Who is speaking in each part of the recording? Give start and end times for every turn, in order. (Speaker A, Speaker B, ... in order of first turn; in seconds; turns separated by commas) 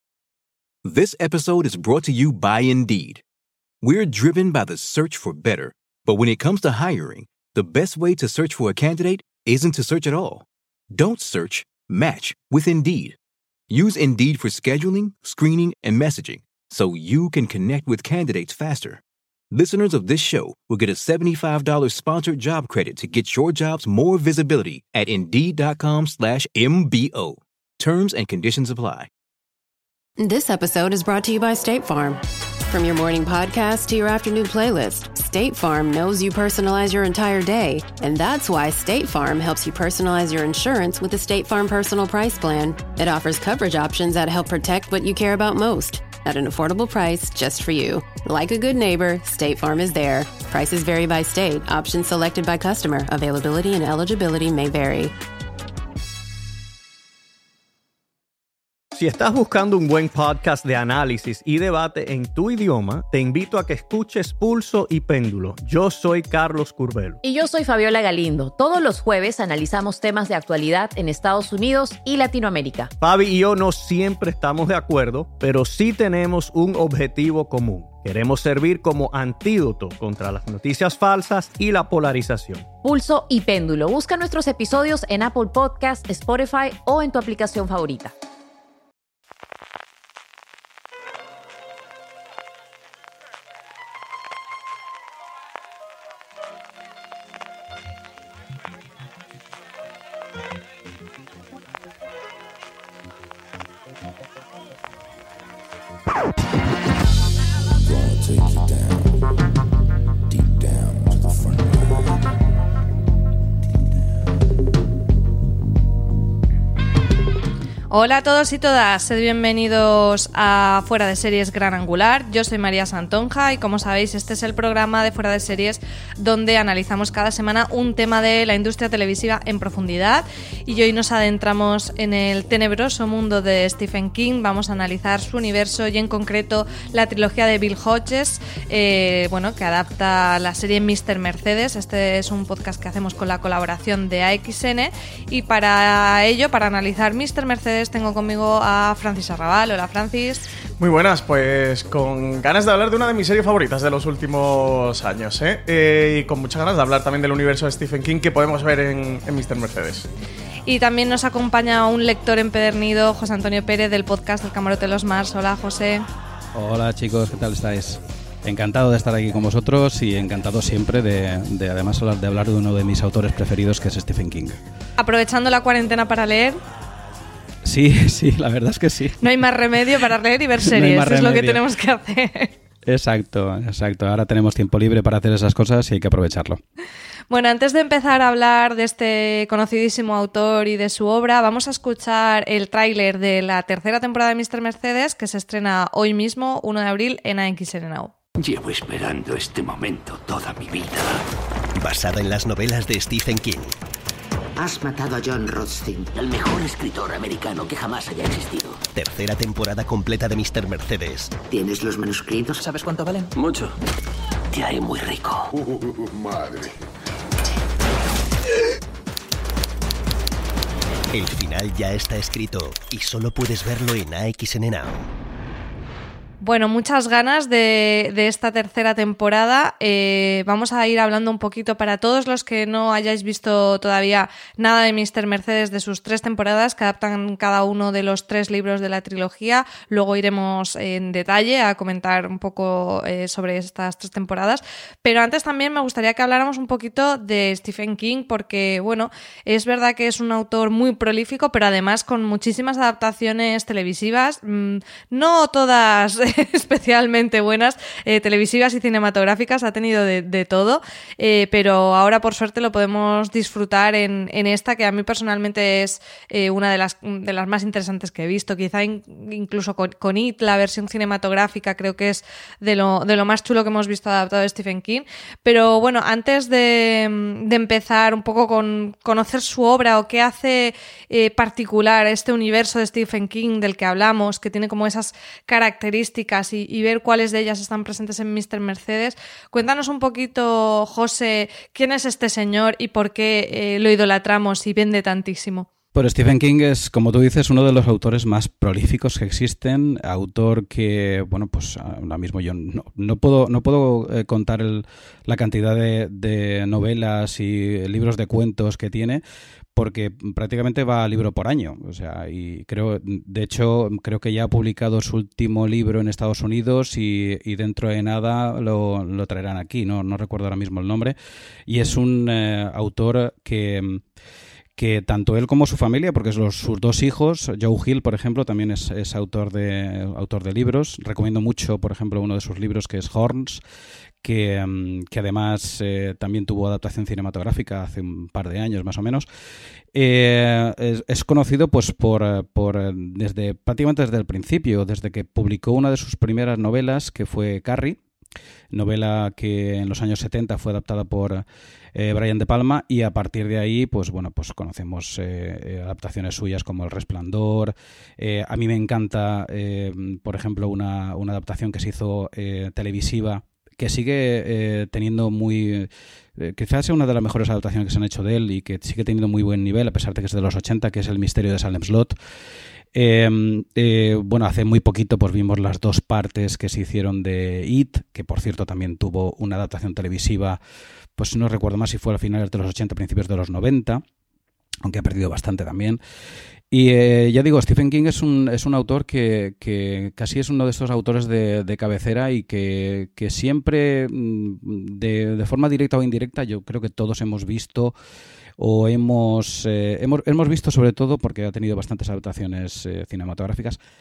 Speaker A: 0.8-3.2, Speaker A: 3.8-13.2, Speaker A: 13.7-29.1, Speaker B: 30.2-55.1, Speaker C: 59.0-67.2, Speaker D: 67.2-72.9, Speaker C: 73.0-82.7, Speaker D: 82.8-88.1, Speaker E: 117.9-150.5, Speaker F: 150.8-160.1, Speaker E: 160.7-166.1, Speaker G: 166.5-174.6, Speaker E: 175.0-176.6, Speaker G: 177.6-179.3, Speaker E: 179.2-182.5, Speaker G: 180.6-181.6, Speaker G: 182.8-186.6, Speaker E: 187.3-198.1, Speaker H: 198.4-201.2, Speaker I: 201.8-203.7, Speaker H: 204.6-208.8, Speaker I: 208.9-211.4, Speaker H: 211.4-213.6, Speaker H: 214.5-215.5, Speaker I: 221.1-225.1, Speaker E: 226.4-295.7, Speaker G: 295.9-309.2, Speaker G: 309.8-321.2, Speaker G: 321.7-324.0, Speaker G: 324.8-333.6, Speaker G: 334.2-339.3, Speaker G: 339.9-348.0, Speaker G: 348.7-351.4, Speaker G: 351.9-372.1, Speaker G: 372.9-380.6, Speaker G: 381.2-384.0, Speaker G: 384.8-386.0, Speaker G: 386.7-397.9, Speaker G: 398.6-403.8